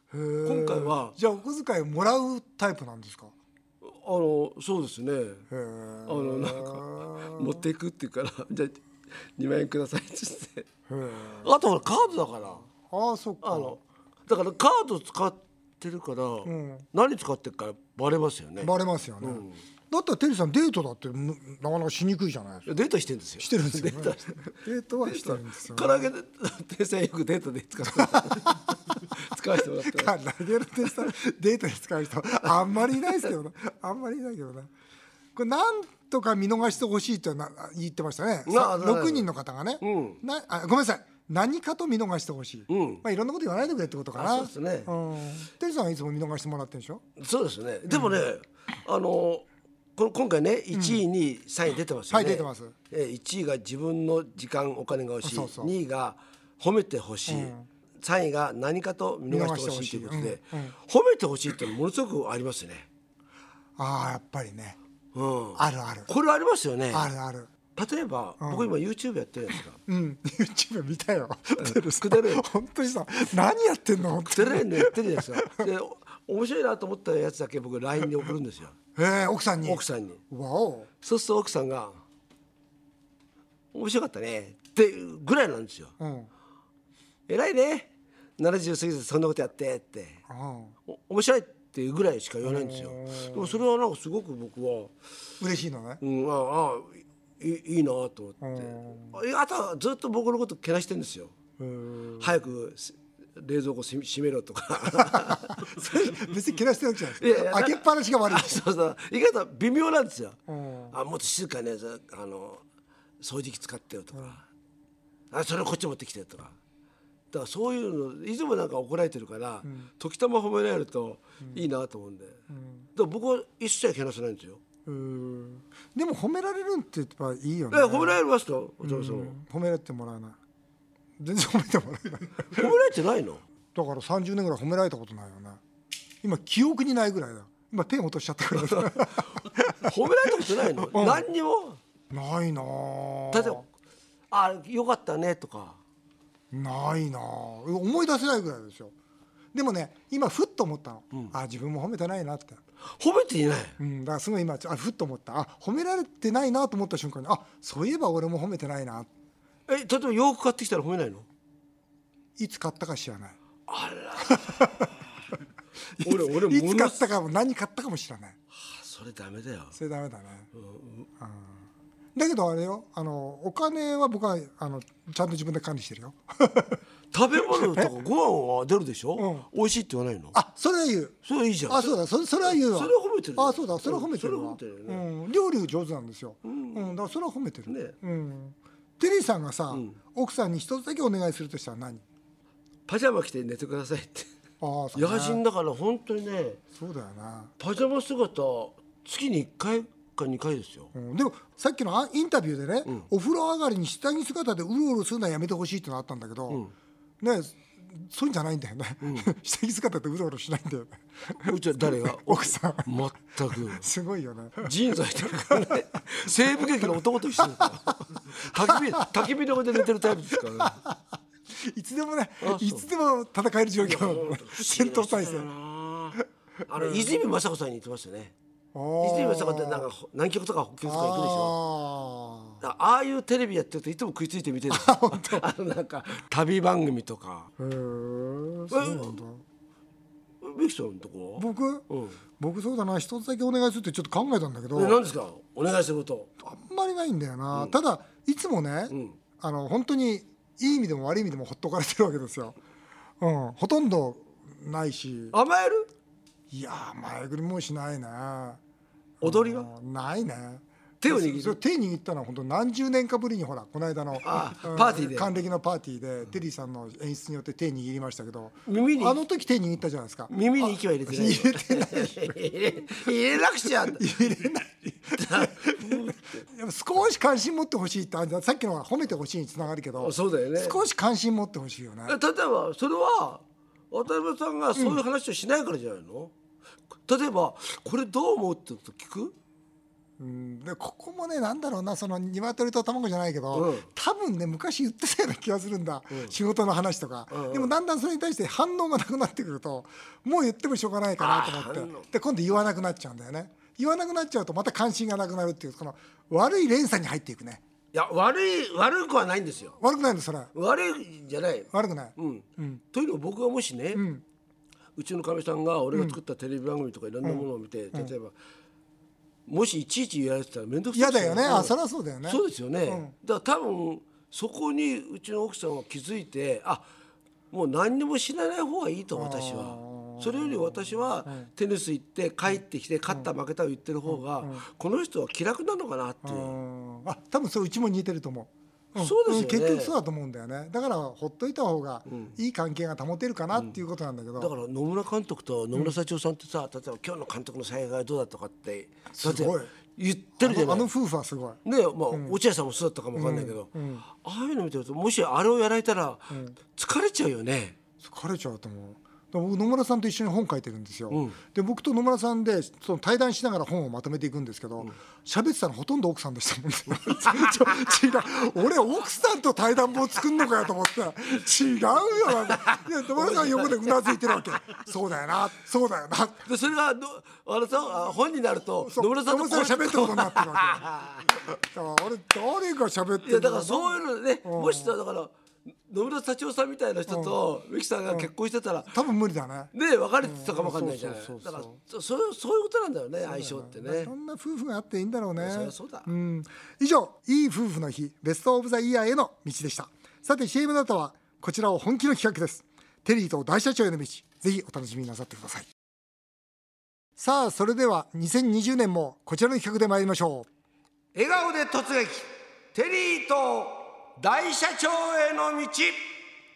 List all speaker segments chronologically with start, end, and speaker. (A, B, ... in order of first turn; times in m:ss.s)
0:00.1-0:03.3 A
0:00.4-0:01.2 B
0:03.8-0:05.5 B
0:05.5-0:07.6 A
0:06.1-0:08.8 B
0:09.4-0:10.7 B
0:10.9-0:11.5 A
0:11.4-0:12.6 B
0:12.7-0:13.8 A
0:13.4-0:19.6 B
0:16.4-0:16.9 A
0:18.6-0:22.7 A
0:22.7-0:30.1 B
0:23.4-0:26.1 A
0:28.0-0:28.5 A
0:29.8-0:34.7 A
0:35.3-0:47.0 A
0:38.5-0:39.3 B
0:39.8-0:40.2 B
0:42.7-0:43.0 B
0:44.2-0:44.9 B
0:47.2-1:02.9 B
0:47.9-0:48.2 A
0:50.7-0:51.0 A
0:52.1-0:52.8 A
0:55.2-0:55.7 A
0:57.3-0:57.7 A
0:59.3-1:00.8 A
1:03.8-1:04.8 A
1:05.2-1:07.1 B
1:05.6-1:06.1 A
1:06.9-1:07.5 A
1:07.8-1:09.8 B
1:08.4-1:08.7 A
1:09.9-1:15.6 A
1:11.6-1:12.4 B
1:14.3-1:18.8 B
1:19.0-1:20.9 A
1:19.6-1:20.2 B
1:21.0-1:22.0 B
1:23.7-1:25.9 B
1:26.0-1:26.3 A
1:27.3-1:30.2 B
1:30.3-1:30.8 A
1:30.9-1:35.0 B
1:32.4-1:33.6 A
1:35.4-1:36.0 A
1:36.0-1:41.4 B
1:38.4-1:39.2 A
1:41.6-1:42.4 A
1:42.2-1:46.4 B
1:44.9-1:48.6 A
1:47.2-1:50.4 B
1:50.5-1:51.0 A
1:50.9-1:52.6 B
1:53.2-1:54.4 B
1:55.3-1:56.5 B
1:57.3-2:02.4 B
1:59.6-1:59.9 A
2:02.5-2:02.9 A
2:03.0-2:04.6 B
2:04.8-2:08.2 A
2:07.7-2:09.4 B
2:08.8-2:10.4 A
2:11.2-2:12.7 A
2:12.5-2:13.4 B
2:13.8-2:15.6 A
2:16.2-2:21.2 A
2:18.6-2:19.2 B
2:19.8-2:21.8 B
2:22.1-2:23.6 A
2:23.3-2:23.6 B
2:24.3-2:25.8 B
2:26.5-2:28.9 A
2:29.5-2:32.6 A
2:33.0-2:33.8 B
2:33.8-2:39.1 A
2:39.7-2:41.3 B
2:42.4-2:43.4 A
2:43.7-2:44.9 B
2:44.2-2:44.9 A
2:45.9-2:48.4 A
2:46.0-2:47.1 B
2:48.5-2:49.8 B
2:49.7-2:50.5 A
2:50.5-2:51.1 B
2:51.2-2:51.6 A
2:52.2-2:56.8 A
2:57.1-3:00.4 B
2:57.4-2:57.9 A
2:59.2-2:59.5 A
3:00.3-3:01.2 A
3:01.3-3:02.0 B
3:01.7-3:12.0 A
3:02.5-3:05.0 B
3:06.5-3:06.9 B
3:07.7-3:08.0 B
3:09.7-3:10.0 B
3:12.9-3:14.3 B
3:14.6-3:15.4 A
3:15.0-3:16.6 B
3:16.8-3:17.5 A
3:17.6-3:20.9 B
3:20.9-3:26.6 A
3:27.2-3:33.0 A
3:29.0-3:29.3 B
3:31.4-3:33.9 B
3:33.5-3:34.7 A
3:34.6-3:40.8 B
3:35.4-3:35.8 A
3:36.8-3:37.7 A
3:38.5-3:39.1 A
3:40.5-3:41.0 A
3:41.6-3:45.5 A
3:42.4-3:42.8 B
3:43.8-3:48.3 B
3:46.8-3:47.1 A
3:48.7-3:49.9 A
3:49.0-3:51.5 B
3:50.8-3:52.6 A
3:52.6-3:57.5 B
3:54.7-3:55.4 A
3:57.6-3:59.4 A
3:58.7-3:59.2 B
4:00.4-4:02.2 B
4:01.4-4:01.8 A
4:02.4-4:05.0 A
4:04.8-4:06.3 B
4:06.4-4:12.6 A
4:08.9-4:09.2 B
4:13.2-4:15.4 A
4:15.3-4:15.9 B
4:16.5-4:18.6 A
4:19.2-4:33.0 A
4:19.2-4:19.7 B
4:21.0-4:21.6 B
4:24.2-4:25.3 B
4:28.7-4:29.2 B
4:30.3-4:34.1 B
4:33.8-4:42.2 A
4:35.2-4:36.4 B
4:40.0-4:40.8 B
4:42.1-4:46.3 B
4:44.8-4:45.0 A
4:47.0-4:49.4 B
4:50.2-5:07.6 A
4:53.5-4:53.9 B
4:57.3-4:57.7 B
5:01.2-5:02.1 B
5:07.9-5:09.8 B
5:09.8-5:10.5 A
5:10.5-5:14.0 B
5:11.7-5:12.8 A
5:13.9-5:14.2 A
5:15.0-5:18.3 B
5:15.9-5:16.2 A
5:17.2-5:18.1 A
5:19.5-5:26.9 B
5:20.9-5:23.1 A
5:27.5-5:36.6 B
5:29.1-5:31.5 A
5:32.5-5:33.3 A
5:34.1-5:34.6 A
5:36.2-5:44.5 A
5:39.0-5:40.0 B
5:42.1-5:42.4 B
5:44.4-5:50.9 B
5:49.1-5:49.7 A
5:50.4-5:51.6 A
5:51.6-5:57.8 B
5:52.1-5:52.4 A
5:53.2-5:54.0 A
5:56.3-5:56.6 A
5:58.0-6:16.5 A
6:01.1-6:01.4 B
6:07.2-6:07.8 B
6:12.3-6:14.4 B
6:16.5-6:21.3 B
6:18.8-6:20.9 A
6:21.5-6:25.0 A
6:23.2-6:25.3 B
6:25.9-6:29.0 B
6:27.1-6:27.4 A
6:28.9-6:31.8 A
6:29.7-6:34.1 B
6:33.2-6:45.7 A
6:35.4-6:36.1 B
6:47.2-6:50.5 A
6:51.1-6:56.0 B